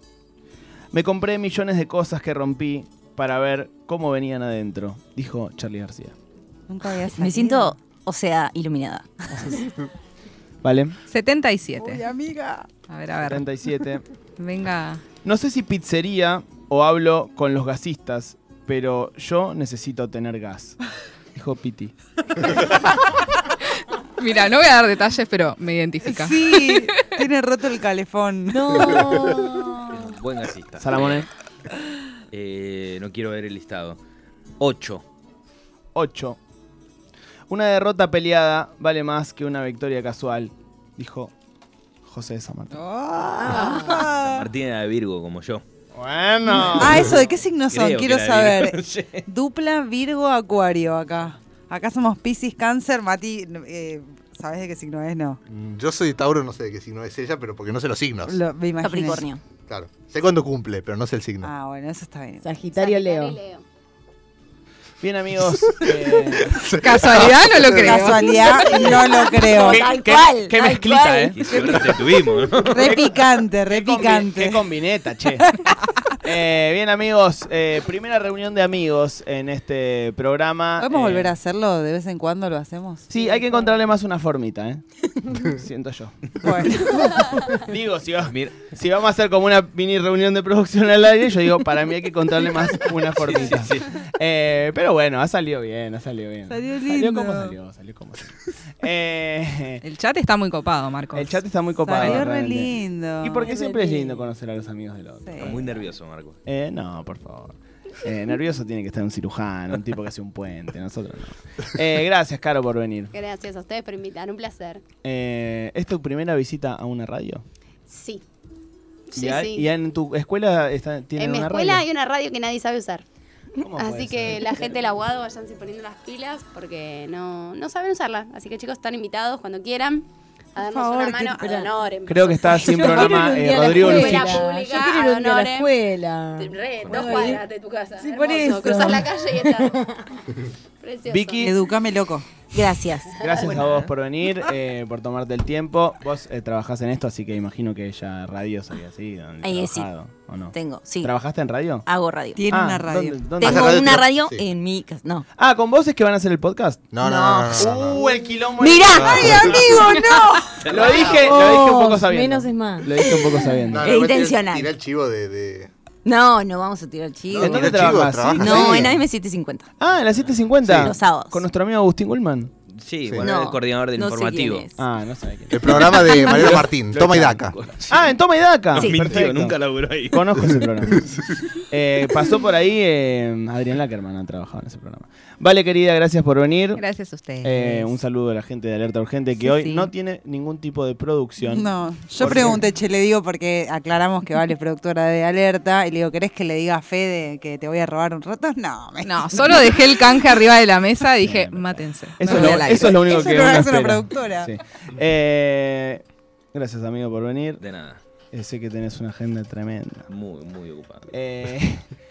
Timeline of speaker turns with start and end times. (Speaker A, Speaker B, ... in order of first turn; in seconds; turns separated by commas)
Speaker A: 0.9-6.2, Speaker B: 6.7-7.8, Speaker C: 7.2-9.7, Speaker A: 10.6-11.0, Speaker D: 11.1-12.0, Speaker B: 11.7-12.7, Speaker D: 12.9-13.5, Speaker A: 13.2-14.1, Speaker D: 14.4-15.0, Speaker A: 15.2-20.8, Speaker A: 21.3-21.9, Speaker D: 24.2-27.1, Speaker B: 26.0-29.1, Speaker E: 28.5-30.2, Speaker F: 29.9-31.3, Speaker A: 30.8-31.3, Speaker F: 32.3-34.0, Speaker F: 34.6-35.0, Speaker A: 36.0-36.4, Speaker A: 37.5-41.3, Speaker A: 42.0-42.9, Speaker B: 42.7-44.5, Speaker E: 43.4-44.1, Speaker F: 44.0-45.6, Speaker A: 45.9-47.2, Speaker B: 46.5-55.4, Speaker F: 46.9-47.2, Speaker F: 47.7-49.2, Speaker G: 55.5-58.4, Speaker B: 58.3-59.3, Speaker C: 58.8-59.4, Speaker G: 59.7-61.5, Speaker B: 61.4-62.5, Speaker E: 62.4-63.4, Speaker H: 62.7-63.6, Speaker A: 65.0-66.7, Speaker G: 65.7-67.7, Speaker D: 66.8-68.6, Speaker B: 67.7-69.9, Speaker E: 67.9-68.2, Speaker C: 68.6-71.8, Speaker A: 69.5-71.4, Speaker F: 71.3-73.0, Speaker B: 71.4-74.7, Speaker A: 72.8-73.2, Speaker A: 73.7-75.5, Speaker B: 75.4-75.8, Speaker A: 76.1-81.3, Speaker B: 80.8-83.1, Speaker A: 83.1-99.8, Speaker E: 83.1-83.6, Speaker B: 86.4-87.1, Speaker F: 88.2-88.5, Speaker F: 93.2-93.9, Speaker B: 96.5-97.6, Speaker D: 99.8-101.4, Speaker A: 101.1-105.8, Speaker B: 101.8-103.5, Speaker E: 103.4-104.3, Speaker B: 105.2-105.7, Speaker F: 105.4-106.4, Speaker A: 106.5-113.1, Speaker H: 113.1-114.8, Speaker A: 115.0-117.4, Speaker H: 117.9-118.2, Speaker H: 119.1-119.7, Speaker A: 119.2-121.8, Speaker H: 121.2-123.0, Speaker A: 123.6-124.7, Speaker H: 123.8-135.8, Speaker B: 130.6-131.6, Speaker E: 131.0-131.7, Speaker A: 132.1-134.5, Speaker E: 132.6-137.4, Speaker H: 136.4-140.0, Speaker F: 136.8-137.3, Speaker E: 138.0-140.0, Speaker H: 140.8-141.6, Speaker A: 141.1-141.6, Speaker B: 141.4-142.3, Speaker C: 142.5-143.2, Speaker A: 143.2-151.8, Speaker F: 143.4-143.9, Speaker C: 149.4-149.9, Speaker C: 150.5-151.1, Speaker C: 151.9-152.4, Speaker B: 152.4-153.3, Speaker A: 152.5-153.9, Speaker C: 153.4-155.2, Speaker G: 153.4-154.4, Speaker A: 155.4-159.6, Speaker G: 156.9-158.0, Speaker C: 158.6-159.9, Speaker G: 158.9-159.8, Speaker B: 158.9-160.7, Speaker F: 160.6-161.2, Speaker A: 160.7-163.8, Speaker G: 160.8-161.4, Speaker E: 161.1-163.1, Speaker C: 163.0-164.7, Speaker G: 163.7-165.7, Speaker C: 166.0-169.7, Speaker G: 167.3-168.9, Speaker A: 167.4-169.0, Speaker A: 169.8-172.5, Speaker F: 170.7-170.9, Speaker C: 170.8-171.4, Speaker F: 172.8-174.7, Speaker C: 173.2-174.8, Speaker A: 174.8-181.1, Speaker G: 175.5-177.7, Speaker C: 175.7-176.5, Speaker F: 177.6-178.2, Speaker F: 178.7-181.1, Speaker C: 178.8-179.2, Speaker A: 181.7-186.8, Speaker D: 186.8-187.9, Speaker A: 187.4-192.6, Speaker B: 189.5-189.9, Speaker B: 191.4-200.0, Speaker D: 199.0-202.9, Speaker A: 201.2-207.6, Speaker C: 202.3-202.9, Speaker B: 202.4-204.5, Speaker F: 207.6-208.0, Speaker A: 208.3-210.1, Speaker F: 210.1-211.1, Speaker A: 211.1-211.9